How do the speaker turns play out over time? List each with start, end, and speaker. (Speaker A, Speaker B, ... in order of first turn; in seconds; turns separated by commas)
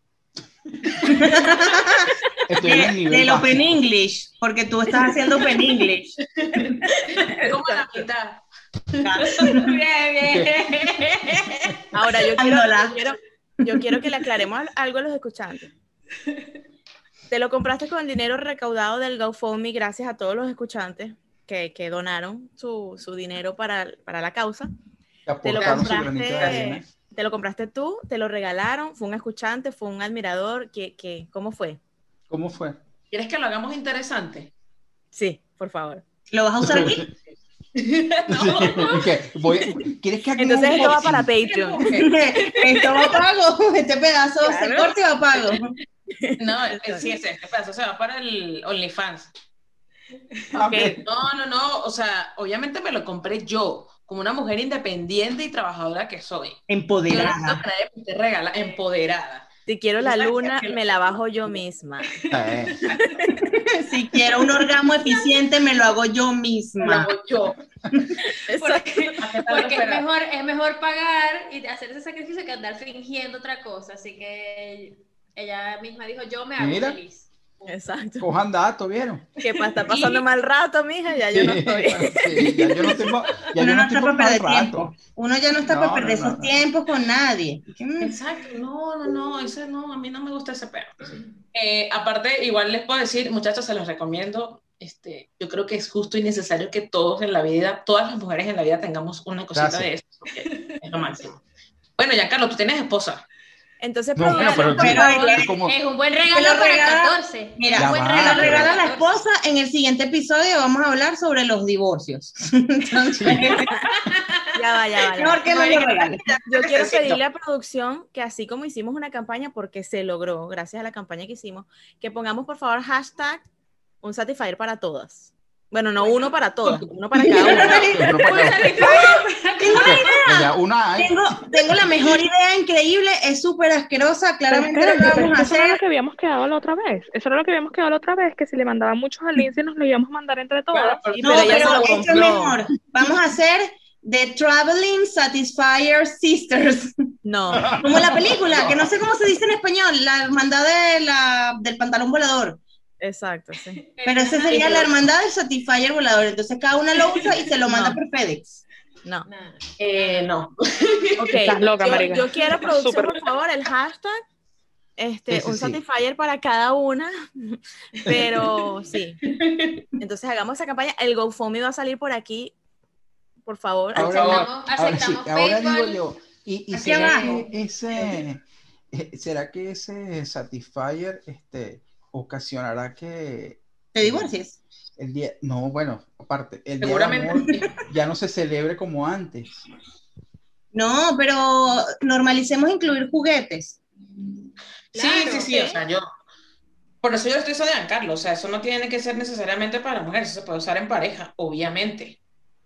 Speaker A: 1.0-1.6, Speaker B: 1.0-2.1, Speaker C: 2.5-3.7, Speaker B: 2.6-6.1, Speaker A: 5.1-5.6, Speaker D: 6.4-8.4, Speaker A: 6.9-7.4, Speaker E: 7.5-8.0, Speaker D: 9.0-9.6, Speaker B: 9.0-9.6, Speaker A: 9.2-11.7, Speaker C: 10.3-10.5, Speaker E: 11.9-15.7, Speaker B: 12.4-13.0, Speaker E: 17.3-24.7, Speaker C: 25.3-26.9, Speaker E: 25.4-31.8, Speaker D: 25.6-26.6, Speaker C: 32.3-32.8, Speaker D: 33.1-34.5, Speaker E: 35.1-36.0, Speaker B: 36.3-37.0, Speaker C: 36.6-37.1, Speaker D: 37.8-39.1, Speaker C: 38.3-41.3, Speaker E: 40.4-41.8, Speaker D: 41.4-42.1, Speaker B: 41.9-45.7, Speaker A: 42.7-43.0, Speaker E: 44.4-45.0, Speaker E: 46.1-47.1, Speaker D: 46.4-49.3, Speaker C: 50.5-51.0, Speaker E: 50.6-51.0, Speaker D: 51.0-59.5, Speaker B: 56.7-57.6, Speaker E: 59.7-62.2, Speaker D: 60.0-61.2, Speaker A: 62.1-63.0, Speaker C: 62.3-62.8, Speaker E: 62.9-63.4, Speaker B: 63.7-67.1, Speaker D: 66.8-67.6, Speaker E: 68.5-69.2, Speaker A: 68.5-77.7, Speaker D: 69.2-70.0, Speaker C: 76.6-77.0, Speaker E: 77.7-78.3, Speaker C: 78.2-79.3, Speaker E: 79.4-83.0, Speaker A: 79.7-80.2, Speaker C: 81.3-84.9, Speaker B: 83.6-88.2, Speaker C: 85.6-86.6, Speaker D: 88.0-101.4, Speaker C: 99.5-99.9, Speaker A: 100.3-100.8, Speaker D: 102.0-103.2, Speaker E: 103.8-105.4, Speaker C: 104.2-105.7, Speaker A: 104.3-109.1, Speaker B: 104.8-105.5, Speaker B: 106.3-113.7, Speaker C: 107.7-108.7, Speaker C: 113.2-113.5, Speaker A: 113.7-114.4, Speaker E: 114.5-123.4, Speaker B: 115.2-116.2, Speaker D: 116.5-117.2, Speaker E: 124.0-127.9, Speaker B: 127.2-128.0, Speaker A: 127.4-130.4, Speaker C: 127.6-129.0, Speaker B: 129.6-135.8, Speaker C: 129.8-131.8, Speaker F: 134.5-141.1, Speaker D: 140.7-142.0, Speaker E: 141.1-142.6, Speaker B: 141.2-146.9, Speaker E: 147.2-147.9, Speaker C: 147.5-148.3, Speaker B: 147.8-152.6, Speaker E: 153.0-153.8, Speaker A: 153.7-155.0, Speaker B: 154.0-158.6, Speaker A: 157.1-157.4, Speaker E: 157.7-158.0, Speaker A: 159.2-160.3, Speaker D: 159.8-161.4, Speaker A: 160.8-162.6, Speaker E: 161.2-164.2, Speaker F: 161.3-163.2, Speaker E: 165.0-169.2, Speaker C: 165.3-165.8, Speaker D: 169.3-169.8, Speaker E: 170.0-172.5, Speaker E: 173.4-174.4, Speaker C: 173.9-184.3, Speaker D: 174.0-174.5, Speaker A: 174.0-176.0, Speaker B: 176.7-177.4, Speaker B: 183.9-184.6, Speaker C: 185.0-189.7, Speaker D: 186.8-187.7, Speaker B: 190.7-193.8, Speaker D: 194.9-196.0, Speaker A: 195.0-195.5, Speaker E: 195.2-195.7, Speaker D: 197.0-202.2